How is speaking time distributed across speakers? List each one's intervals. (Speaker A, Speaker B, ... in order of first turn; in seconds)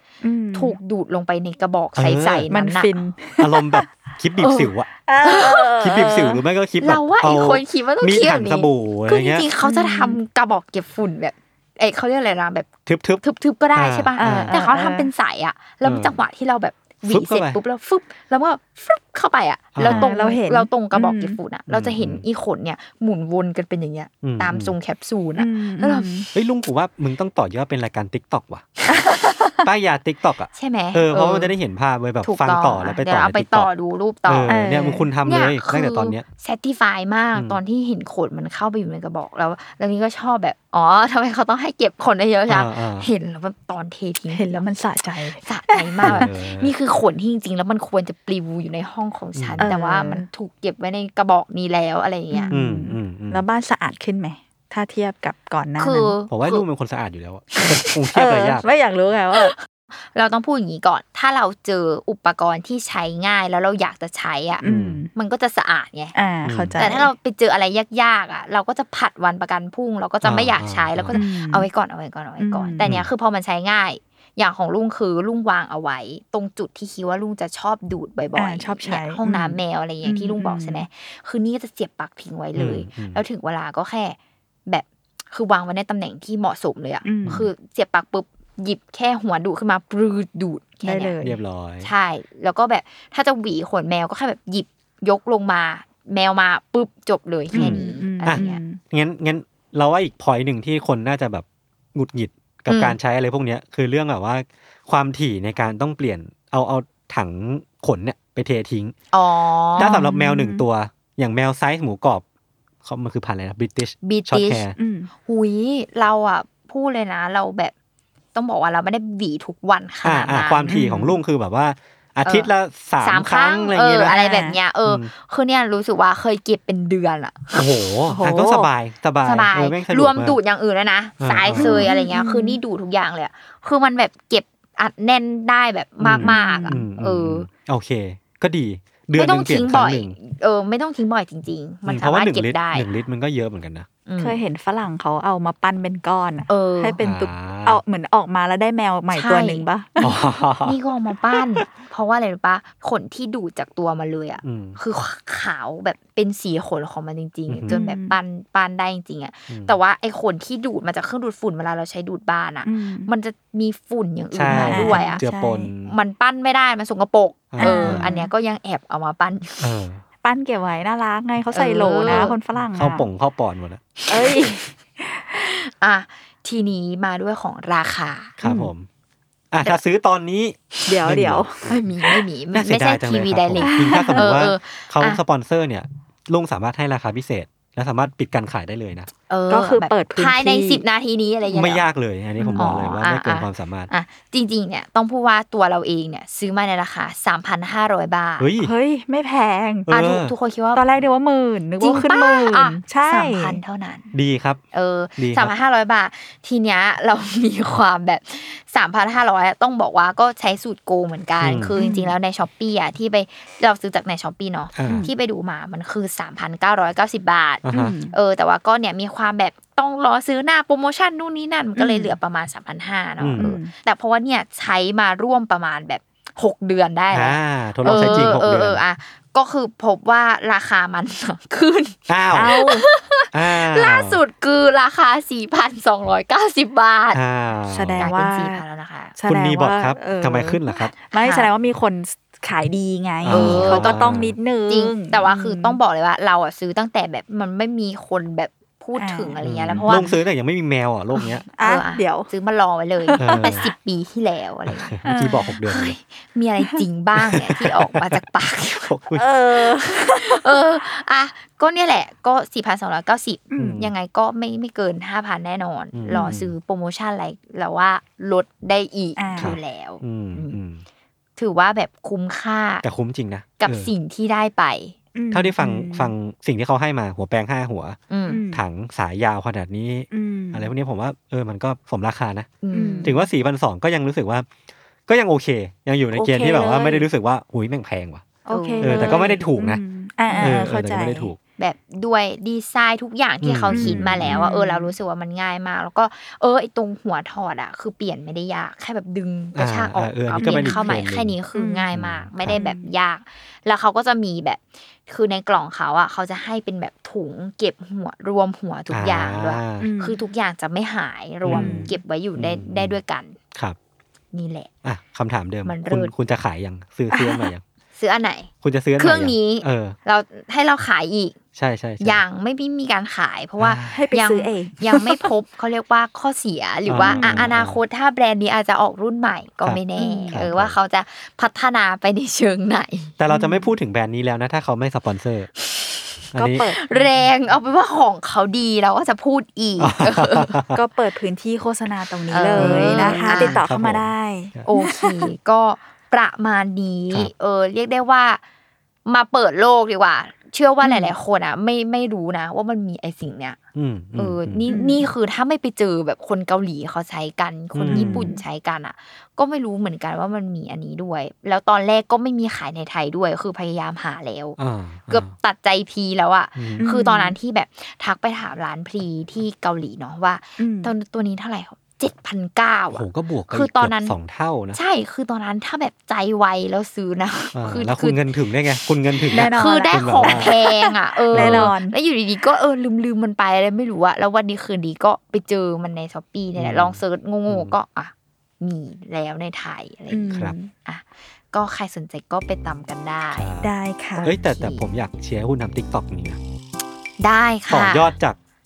Speaker A: 0.2-0.8, 2.5-3.9, 5.0-6.4, 9.6-10.2, 14.2-15.1, 19.8-21.4, 25.3-26.2, 29.0-29.4, 34.5-35.1, 44.3-46.3, 49.6-50.2, 52.3-56.1, 57.6-59.5, 64.6-65.1, 66.1-67.1, 71.1-71.7, 72.4-73.0, 78.3-80.8, 87.0-87.5, 90.8-91.4, 97.5-98.8, 109.8-110.6, 114.8-115.1, 120.7-121.2, 124.1-124.6, 128.1-128.7, 131.5-132.6, 136.2-136.8, 144.2-150.1, 157.7-158.2, 162.6-163.1, 164.5-165.7, 167.6-168.3, 170.2-173.1, 174.1-175.3, 178.4-178.7, 180.9-181.7, 183.6-184.4, 189.5-190.8, 192.4-192.8, 198.6-199.9, 200.7-203.6, 211.8-212.1, 214.8-215.1, 217.7-218.1, 221.8-222.2, 223.4-223.7, 227.9-228.3, 232.3-232.8, 237.7-238.6, 239.1-245.8, 249.0-250.1, 251.5-252.3, 253.0-253.6, 255.0-255.6, 259.1-260.5, 263.5-263.8, 266.1-266.4, 269.2-269.5, 275.1-276.1, 278.3-278.6, 280.1-280.7, 282.7-283.2, 286.1-287.1, 288.5-291.3, 293.7-294.9, 300.3-301.0, 301.5-301.9, 302.5-302.9, 309.8-310.2, 311.5-311.9, 317.1-317.5, 323.9-325.3, 327.0-327.5, 330.0-330.4, 333.3-333.7, 336.4-337.0, 340.7-345.3, 350.8-351.1, 354.7-355.1, 357.9-358.4, 366.8-367.4, 370.6-370.9, 379.3-381.9, 390.1-390.7, 393.6-394.3
Speaker B: 0.5-3.0, 4.4-4.7, 5.2-5.7, 6.8-12.7, 13.2-26.3, 29.0-29.4, 30.5-31.5, 32.2-34.6, 35.2-44.6, 45.3-52.5, 55.8-56.6, 60.1-66.2, 66.8-91.1, 91.8-98.6, 102.7-103.0, 109.1-110.0, 114.0-114.7, 115.2-117.7, 118.3-120.7, 122.2-127.7, 129.2-137.5, 139.1-142.9, 144.1-144.4, 146.5-147.0, 149.1-149.6, 150.6-165.2, 165.8-169.8, 171.5-172.3, 174.2-174.5, 175.3-178.3, 181.6-185.2, 189.3-191.8, 192.6-198.5, 199.9-200.8, 201.8-204.1, 204.7-237.2, 238.0-239.2, 241.1-241.5, 243.3-250.1, 251.6-255.0, 255.6-258.9, 259.6-270.6, 271.4-272.8, 273.6-274.9, 278.1-278.4, 282.6-283.1, 288.5-289.4, 290.3-290.6, 291.6-313.4, 314.3-314.7, 315.6-316.1, 317.9-321.4, 322.0-333.1, 335.6-340.6, 342.3-343.6, 344.6-348.4, 349.1-353.6, 354.1-364.6, 365.1-374.1, 374.7-378.2, 379.1-393.5, 394.2-394.8, 397.2-398.1
Speaker C: 1.9-2.5, 3.4-4.9, 5.7-9.4, 12.8-13.2, 13.7-14.6, 15.8-16.2, 17.1-17.6, 19.7-20.1, 21.7-22.2, 24.2-24.8, 26.3-28.8, 29.6-33.7, 34.3-36.2, 37.3-37.6, 42.5-43.1, 46.0-46.7, 49.3-49.7, 52.5-53.4, 56.3-58.6, 64.6-65.0, 66.4-66.8, 70.2-71.2, 72.8-73.1, 82.5-83.2, 91.2-91.9, 97.5-108.9, 109.8-112.2, 112.8-114.7, 120.0-124.2, 124.8-125.1, 127.5-130.4, 131.2-131.9, 136.0-140.2, 141.9-143.9, 147.0-147.8, 150.0-150.8, 154.4-154.8, 157.5-157.8, 159.5-159.8, 164.3-165.9, 167.5-168.1, 169.6-170.0, 172.0-174.0, 178.4-178.9, 179.5-181.8, 182.5-189.1, 191.5-193.9, 198.4-198.7, 199.9-200.3, 204.1-204.6, 205.2-205.5, 211.4-211.7, 214.7-215.1, 217.6-217.9, 223.2-223.5, 227.1-228.8, 232.1-232.6, 233.3-234.2, 237.1-238.1, 239.3-240.9, 243.2-244.3, 249.4-251.4, 253.2-253.7, 254.7-255.9, 257.1-258.2, 258.8-259.3, 263.5-263.9, 265.9-266.5, 269.4-270.8, 272.8-273.9, 275.3-278.0, 278.5-282.5, 283.0-284.5, 285.1-288.2, 288.8-289.8, 290.4-291.4, 293.4-294.4, 299.5-301.4, 301.9-302.6, 308.9-309.9, 311.4-313.0, 314.8-317.6, 318.6-320.0, 321.5-322.2, 323.6-324.0, 326.9-327.8, 330.3-330.8, 333.2-335.5, 336.3-336.7, 339.8-340.8, 342.5-344.6, 353.7-354.7, 357.7-358.3, 364.6-365.3, 366.6-366.9, 372.9-374.8, 377.5-380.5, 381.3-381.8, 386.6-387.7, 393.3-396.4, 397.7-398.4